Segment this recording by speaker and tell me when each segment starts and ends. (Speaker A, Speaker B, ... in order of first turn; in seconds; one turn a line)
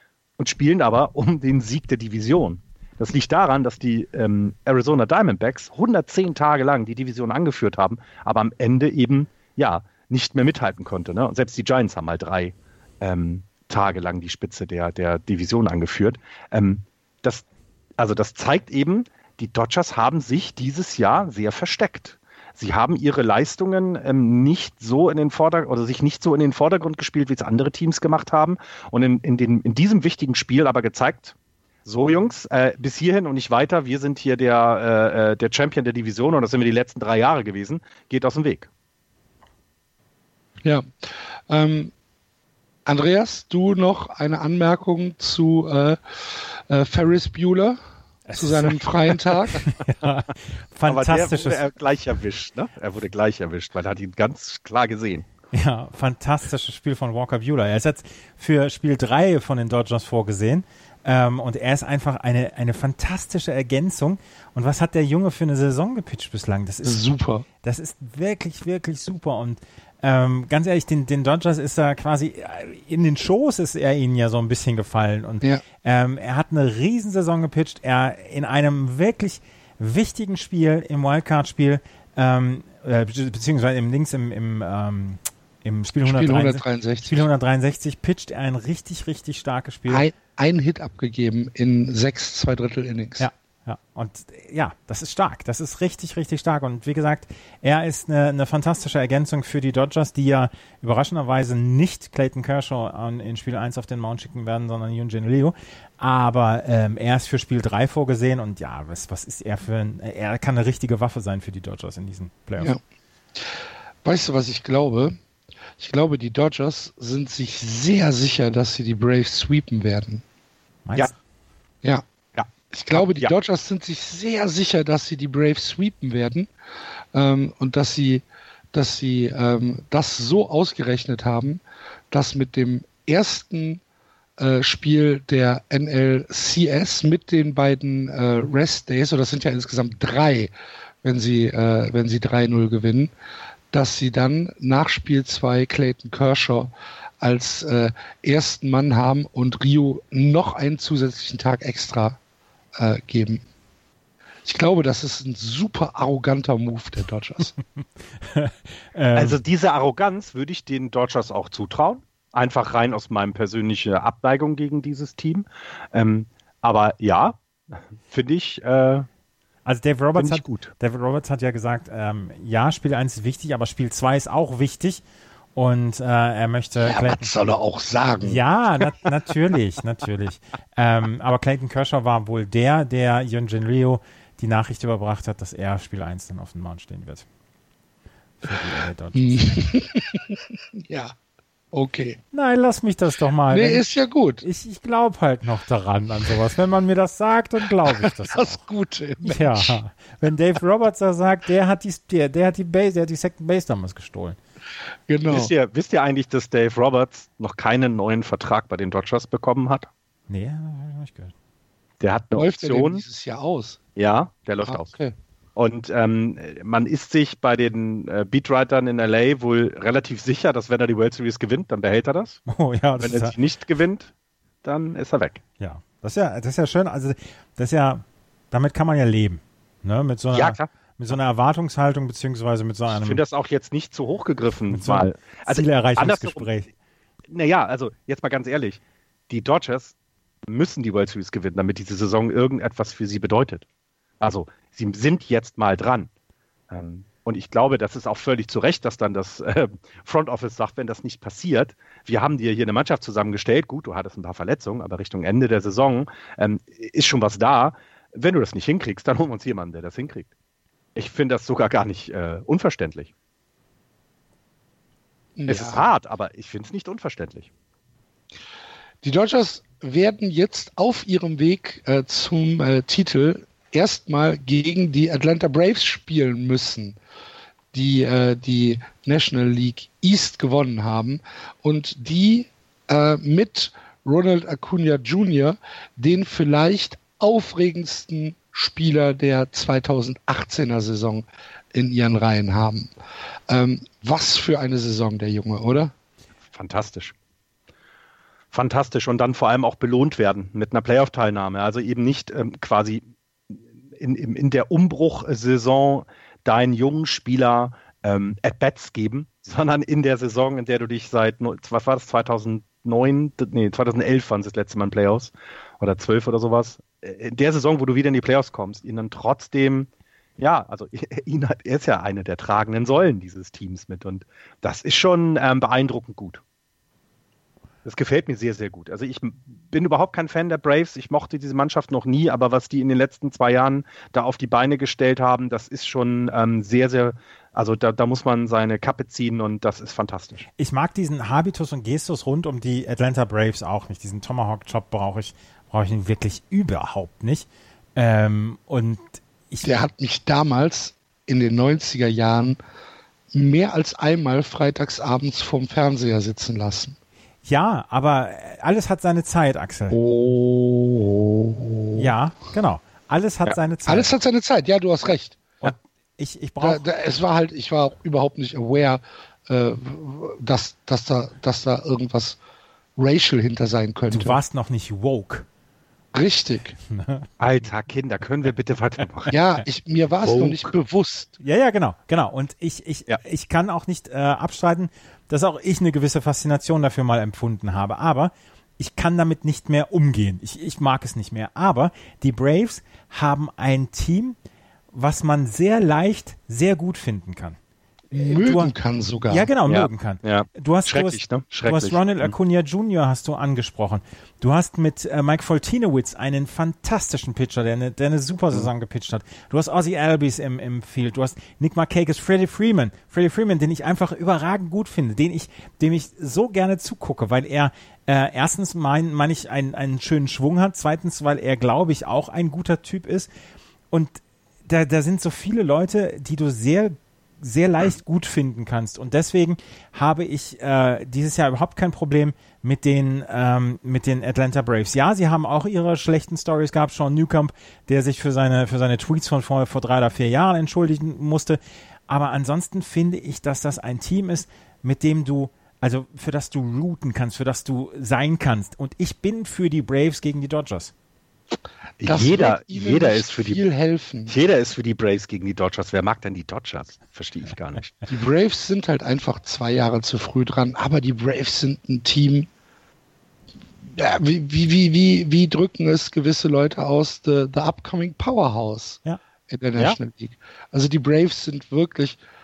Speaker A: 0.4-17.4
Speaker A: 18.0-31.3
Speaker A: 31.9-38.7
Speaker B: 40.6-41.9
Speaker B: 42.9-47.8
Speaker C: 48.3-48.7
Speaker B: 48.3-49.6
Speaker C: 49.6-51.6
Speaker A: 50.9-55.2
Speaker C: 55.5-67.0
Speaker B: 66.8-67.5
Speaker C: 67.6-90.0
Speaker B: 86.0-87.2
Speaker B: 89.9-93.3
Speaker C: 93.2-112.7
Speaker B: 114.0-115.2
Speaker B: 115.8-120.2
Speaker C: 120.8-121.1
Speaker A: 122.3-123.3
Speaker B: 122.7-126.5
Speaker B: 127.1-133.8
Speaker B: 134.4-140.5
Speaker B: 141.0-143.1
Speaker B: 143.7-152.2
Speaker B: 152.8-153.4
Speaker B: 154.4-157.5
Speaker C: 158.2-159.4
Speaker A: 159.1-169.1
Speaker C: 169.7-175.0
Speaker A: 170.2-170.7
Speaker C: 175.5-177.3
Speaker B: 176.8-178.4
Speaker C: 178.2-187.2
Speaker C: 188.4-189.7
Speaker B: 189.1-191.1
Speaker B: 191.7-192.2
Speaker C: 192.3-193.8
Speaker B: 193.5-194.4
Speaker C: 194.4-198.6
Speaker B: 198.0-199.8
Speaker C: 199.2-204.4
Speaker B: 205.1-205.5
Speaker A: 205.3-209.9
Speaker C: 210.3-211.3
Speaker A: 212.0-213.0
Speaker B: 212.3-213.8
Speaker A: 213.9-214.9
Speaker B: 214.6-215.1
Speaker A: 215.6-222.4
Speaker C: 222.5-223.3
Speaker A: 223.0-224.1
Speaker A: 224.6-225.4
Speaker C: 225.6-233.2
Speaker A: 230.3-230.7
Speaker A: 232.9-236.5
Speaker C: 234.7-236.7
Speaker A: 237.3-239.9
Speaker A: 240.5-243.7
Speaker A: 244.2-246.1
Speaker A: 246.7-260.3
Speaker A: 260.9-263.1
Speaker B: 265.4-265.8
Speaker A: 265.5-267.5
Speaker B: 269.0-277.0
Speaker B: 277.7-292.9
Speaker B: 293.5-295.9
Speaker A: 296.5-297.1
Speaker A: 298.5-303.0
Speaker A: 303.9-326.4
Speaker A: 327.8-340.4
Speaker C: 340.6-349.7
Speaker B: 349.6-352.6
Speaker B: 353.3-357.0
Speaker C: 357.4-359.9
Speaker B: 360.0-362.1
Speaker C: 362.0-364.1
Speaker B: 363.9-365.4
Speaker C: 365.6-366.9
Speaker B: 366.6-372.4
Speaker B: 373.0-374.4
Speaker C: 374.1-375.5
Speaker B: 376.1-376.8
Speaker C: 376.9-377.3
Speaker A: 377.4-379.3
Speaker B: 379.3-381.4
Speaker A: 380.2-380.6
Speaker C: 381.4-394.4
Speaker C: 394.9-397.6
Speaker B: 398.1-399.5
Speaker C: 398.1-398.7
Speaker C: 399.3-423.3
Speaker A: 399.7-402.3
Speaker C: 423.9-450.9
Speaker A: 452.0-453.6
Speaker B: 452.0-454.3
Speaker A: 454.3-458.0
Speaker B: 458.1-462.5
Speaker B: 463.9-472.2